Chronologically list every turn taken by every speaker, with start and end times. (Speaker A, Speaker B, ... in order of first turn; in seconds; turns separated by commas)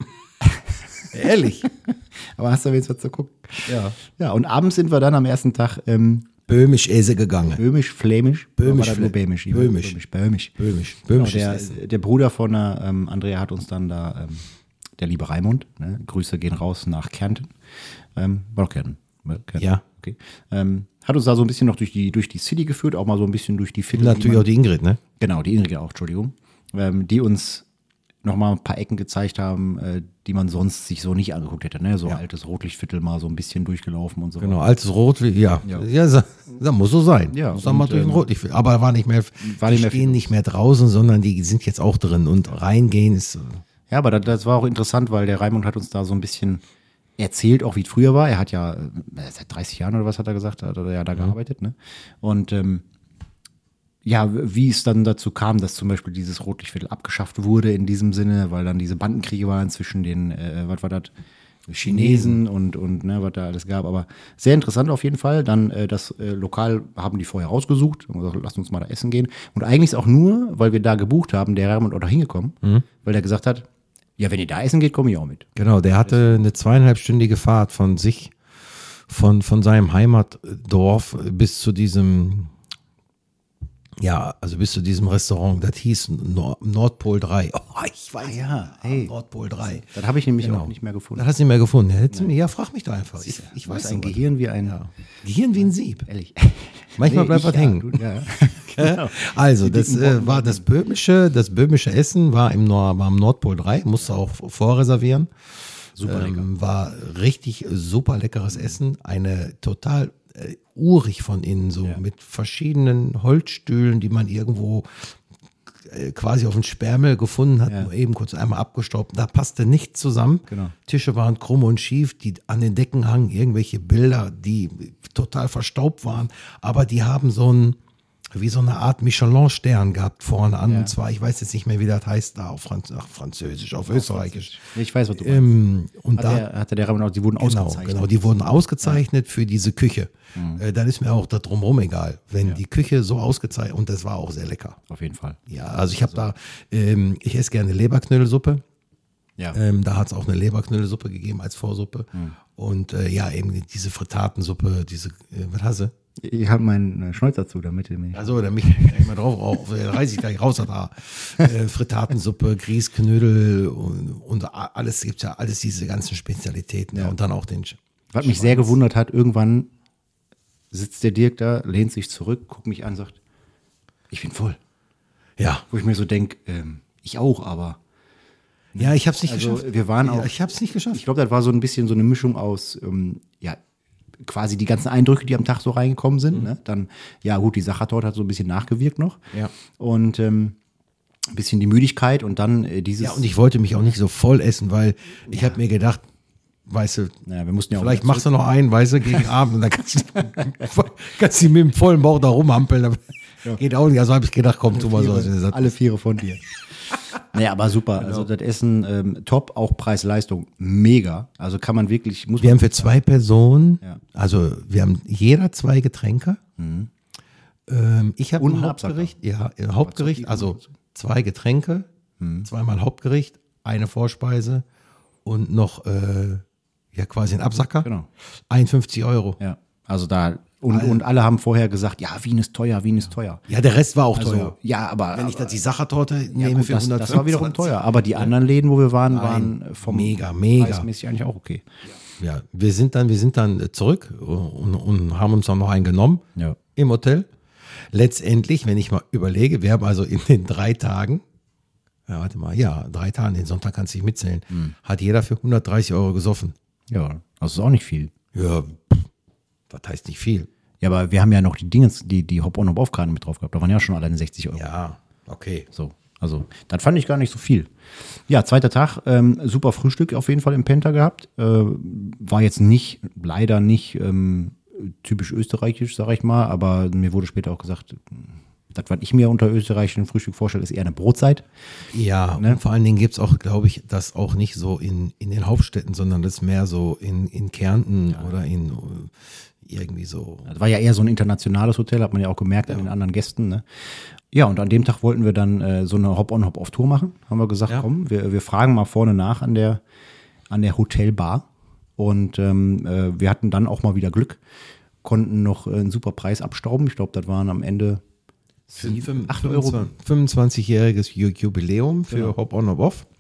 Speaker A: 0.4-1.1, Speaker B: 1.1-1.7, Speaker A: 1.7-6.3, Speaker B: 3.7-4.0, Speaker B: 6.5-7.6, Speaker A: 7.6-10.6, Speaker B: 8.6-10.0, Speaker B: 10.6-11.8, Speaker A: 11.1-14.4, Speaker A: 15.0-17.5, Speaker A: 18.1-24.5, Speaker B: 19.6-19.8, Speaker B: 23.9-25.0, Speaker A: 25.2-27.7, Speaker A: 28.2-34.6, Speaker B: 34.4-43.6, Speaker A: 37.3-38.2, Speaker A: 39.4-40.3, Speaker A: 43.9-46.6, Speaker A: 47.2-52.8, Speaker A: 54.0-61.1, Speaker A: 61.7-73.7, Speaker B: 61.8-62.4, Speaker A: 74.2-75.5, Speaker B: 75.6-78.3, Speaker A: 76.0-76.4, Speaker B: 79.1-82.5, Speaker B: 84.0-96.1, Speaker A: 88.2-91.3, Speaker A: 93.2-94.8, Speaker A: 95.6-100.7, Speaker B: 97.0-98.0, Speaker B: 98.8-105.3, Speaker A: 106.0-106.5, Speaker B: 106.0-115.2, Speaker A: 108.5-108.8, Speaker B: 115.8-127.8, Speaker A: 120.5-120.7, Speaker B: 128.3-134.6, Speaker A: 130.7-130.9, Speaker A: 133.8-135.6, Speaker B: 135.2-136.4, Speaker A: 136.2-139.0, Speaker B: 137.4-144.8, Speaker A: 140.3-140.6, Speaker A: 144.9-145.4, Speaker B: 145.5-148.6, Speaker A: 146.0-146.3, Speaker B: 149.5-155.9, Speaker A: 156.2-159.1, Speaker B: 158.1-168.7, Speaker A: 168.1-169.7, Speaker A: 170.7-173.2, Speaker A: 174.1-174.6, Speaker B: 175.4-175.7, Speaker A: 175.7-177.8, Speaker A: 178.8-180.3, Speaker B: 178.8-181.0, Speaker A: 180.9-183.6, Speaker A: 184.2-190.6, Speaker A: 191.3-193.3, Speaker B: 193.0-196.0, Speaker A: 195.3-195.6, Speaker B: 196.7-197.2, Speaker A: 197.2-198.3, Speaker B: 197.8-205.7, Speaker A: 204.7-206.5, Speaker A: 207.2-212.9, Speaker B: 208.0-208.3, Speaker B: 212.4-216.4, Speaker A: 216.6-216.9, Speaker B: 217.7-221.9, Speaker A: 218.4-219.1, Speaker A: 219.8-220.7, Speaker A: 222.2-222.5, Speaker B: 222.4-224.7, Speaker B: 225.2-226.4, Speaker B: 226.9-227.9, Speaker B: 228.5-229.4, Speaker A: 229.4-233.4, Speaker B: 230.7-231.0, Speaker B: 233.5-234.6, Speaker A: 234.2-235.6, Speaker B: 235.1-238.3, Speaker A: 236.3-241.6, Speaker B: 239.1-240.9, Speaker B: 242.2-246.2, Speaker B: 246.8-247.3, Speaker B: 247.9-251.2, Speaker B: 252.1-256.6, Speaker A: 256.9-258.1, Speaker B: 258.3-259.1, Speaker B: 259.7-260.5, Speaker A: 260.8-264.6, Speaker B: 264.5-265.7, Speaker A: 265.7-267.7, Speaker A: 268.3-281.5, Speaker B: 281.9-290.5, Speaker A: 290.5-293.6, Speaker A: 294.3-299.8, Speaker A: 300.5-304.4, Speaker A: 305.0-308.0, Speaker A: 308.7-309.9, Speaker B: 308.8-313.1, Speaker A: 312.1-312.4